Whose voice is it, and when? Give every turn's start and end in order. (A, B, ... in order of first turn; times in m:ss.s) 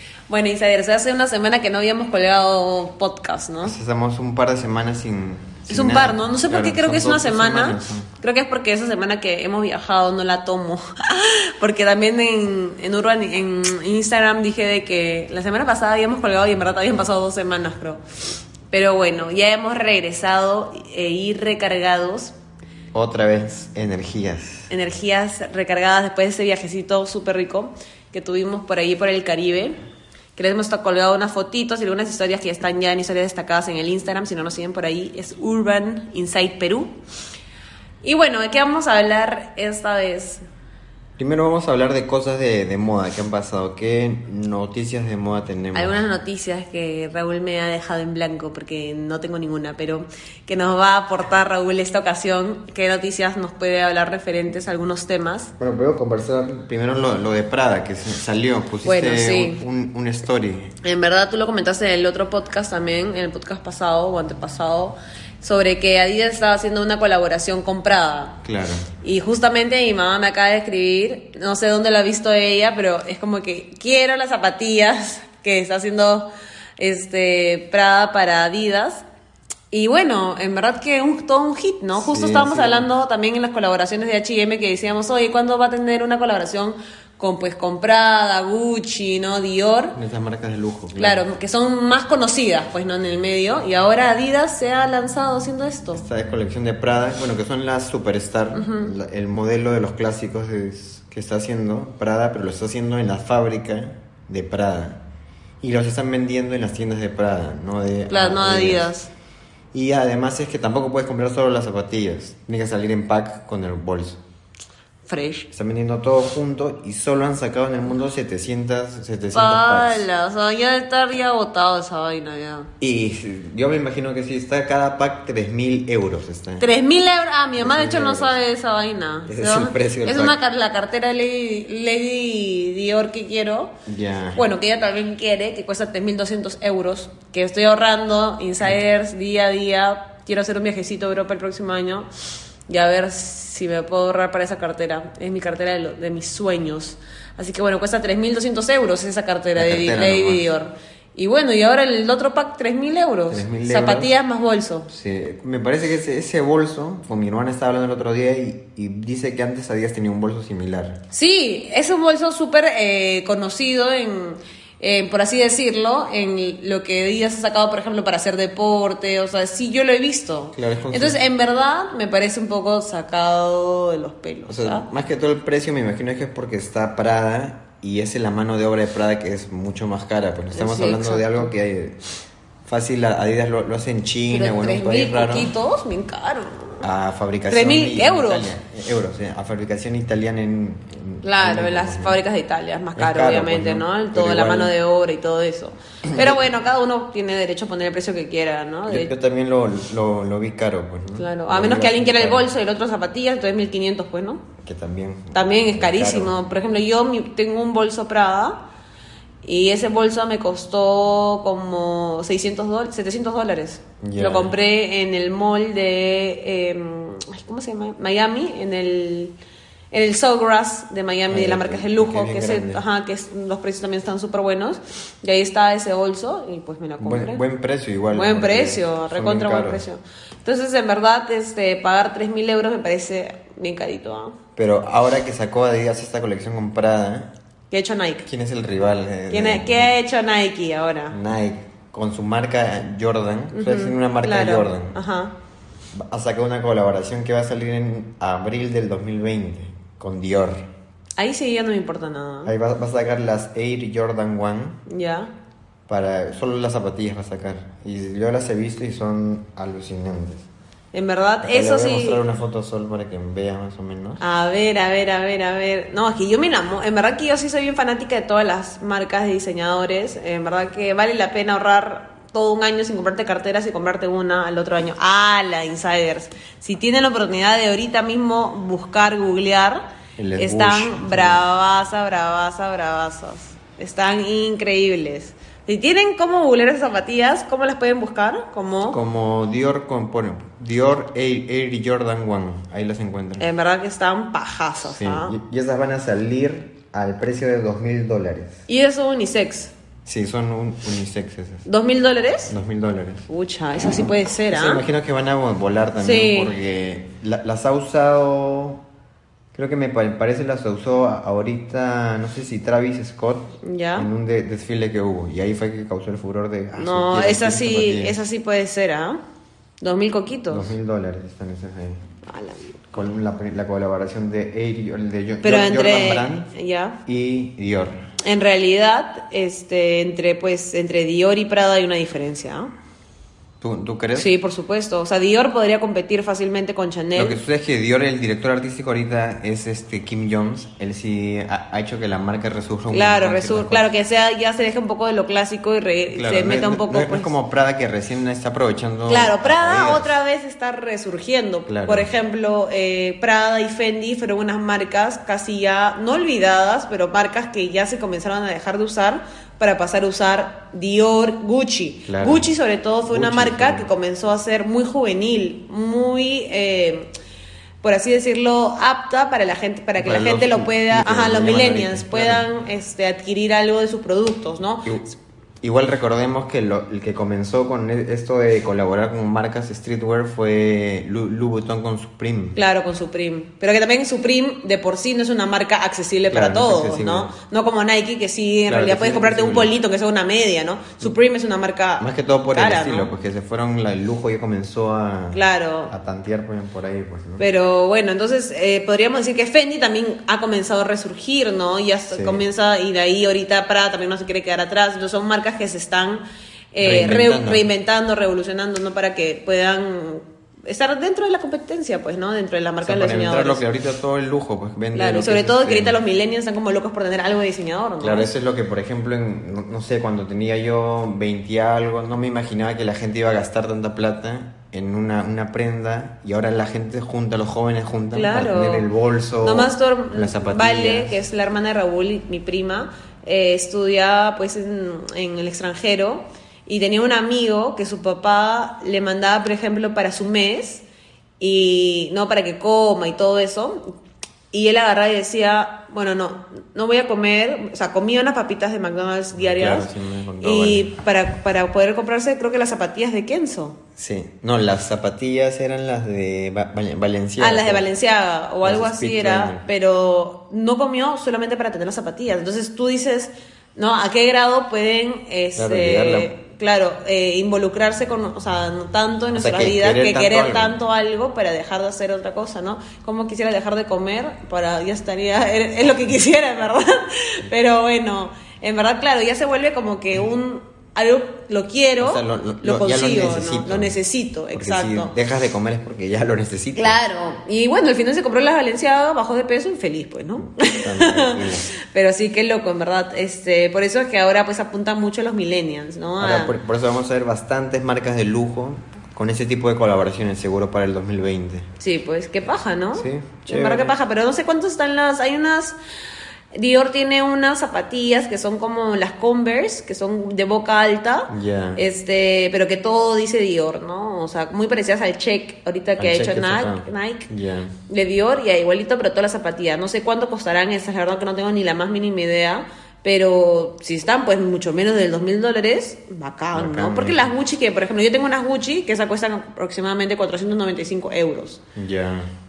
0:00.3-0:03.7 A
0:03.6-0:08.1 B
0:05.7-0:18.0 A
0:18.7-0:22.3 A
0:22.9-0:24.7 B
0:24.7-0:29.8 A
0:30.4-0:36.9 A
0:38.0-0:40.4 A
0:41.2-0:46.0 B
0:45.7-0:55.5 A
0:55.6-1:00.7 B
0:58.8-0:59.6 A
1:00.8-1:08.4 A
1:08.4-1:08.9 B
1:09.0-1:19.0 A
1:19.7-1:30.0 A
1:22.0-1:22.9 B
1:29.9-1:31.2 B
1:31.0-1:36.0 A
1:35.9-1:45.0 B
1:38.5-1:38.9 A
1:45.6-1:48.9 B
1:48.1-1:49.1 A
1:49.7-1:54.2 B
1:55.1-1:55.5 A
1:55.5-2:00.1 B
1:59.3-2:02.7 A
2:02.8-2:06.7 B
2:06.6-2:13.7 A
2:07.6-2:08.4 B
2:09.2-2:10.4 B
2:13.8-2:14.4 B
2:14.3-2:22.1 A
2:22.7-2:34.9 A
2:29.6-2:30.5 B
2:33.3-2:34.1 B
2:34.9-2:41.0 B
2:41.1-2:54.9 A
2:50.5-2:51.2 B
2:54.5-3:02.0 B
3:00.5-3:01.5 A
3:02.6-3:05.5 B
3:04.3-3:06.8 A
3:06.8-3:12.2 B
3:07.5-3:08.5 A
3:11.2-3:19.1 A
3:13.0-3:14.7 B
3:16.1-3:16.4 B
3:18.8-3:22.5 B
3:21.2-3:24.4 A
3:24.6-3:26.4 B
3:25.3-3:28.6 A
3:29.4-3:39.3 A
3:34.0-3:34.5 B
3:39.9-3:47.4 A
3:41.3-3:42.8 B
3:47.0-3:49.8 B
3:48.1-3:54.4 A
3:54.6-3:57.3 B
3:57.7-3:58.3 A
3:58.2-3:59.9 B
3:59.3-4:01.2 A
4:01.1-4:05.0 B
4:03.5-4:05.3 A
4:05.9-4:10.7 B
4:11.2-4:12.5 A
4:12.4-4:14.8 B
4:14.8-4:15.3 A
4:15.9-4:20.5 B
4:20.9-4:22.2 A
4:21.4-4:24.2 B
4:24.2-4:49.0 A
4:40.2-4:41.4 B
4:48.9-4:53.5 B
4:53.4-4:55.3 A
4:54.8-4:58.6 B
4:58.7-4:59.7 A
5:00.0-5:01.6 B
5:01.6-5:02.5 A
5:02.5-5:03.3 B
5:03.3-5:04.8 A
5:04.5-5:08.8 B
5:06.0-5:06.5 A
5:09.5-5:18.2 B
5:13.6-5:14.1 A
5:16.7-5:19.2 A
5:19.8-5:20.7 A
5:20.5-5:22.0 B
5:22.2-5:22.8 A
5:22.9-5:26.5 B
5:25.4-5:27.0 A
5:27.0-5:28.0 B
5:28.2-5:32.7 A
5:33.6-5:34.3 B
5:34.1-5:37.4 A
5:37.2-5:43.9 B
5:42.9-5:47.3 A
5:46.1-5:50.1 B
5:49.1-6:07.1 A
5:51.7-5:52.1 B
6:02.1-6:02.5 B
6:03.0-6:03.9 B
6:07.8-6:15.0 A
6:10.0-6:12.4 B
6:15.6-6:22.6 B
6:22.5-6:33.1 A
6:26.3-6:27.3 B
6:28.7-6:29.7 B
6:32.0-6:37.4 B
6:35.3-6:35.9 A
6:37.4-6:53.6 A
6:42.1-6:42.4 B
6:46.8-6:47.6 B
6:52.8-6:56.0 B
6:54.9-6:58.3 A
6:58.0-7:11.2 B
7:08.1-7:08.9 A
7:09.4-7:20.8 A
7:21.4-7:23.8 A
7:24.5-7:29.9 A
7:29.3-7:30.9 B
7:30.4-7:33.8 A
7:34.0-7:37.9 B
7:37.4-8:05.1 A
7:38.6-7:39.6 B
7:45.6-7:46.3 B
7:49.3-7:50.8 B
8:02.0-8:04.0 B
8:04.5-8:07.0 B
8:06.8-8:16.5 A
8:10.4-8:11.7 B
8:16.2-8:21.7 B
8:21.8-8:25.8 A
8:22.9-8:24.0 B
8:26.5-8:37.3 A
8:31.3-8:31.8 B
8:36.0-8:37.7 B
8:37.9-8:51.6 A
8:46.5-8:47.3 B
8:51.8-8:52.3 B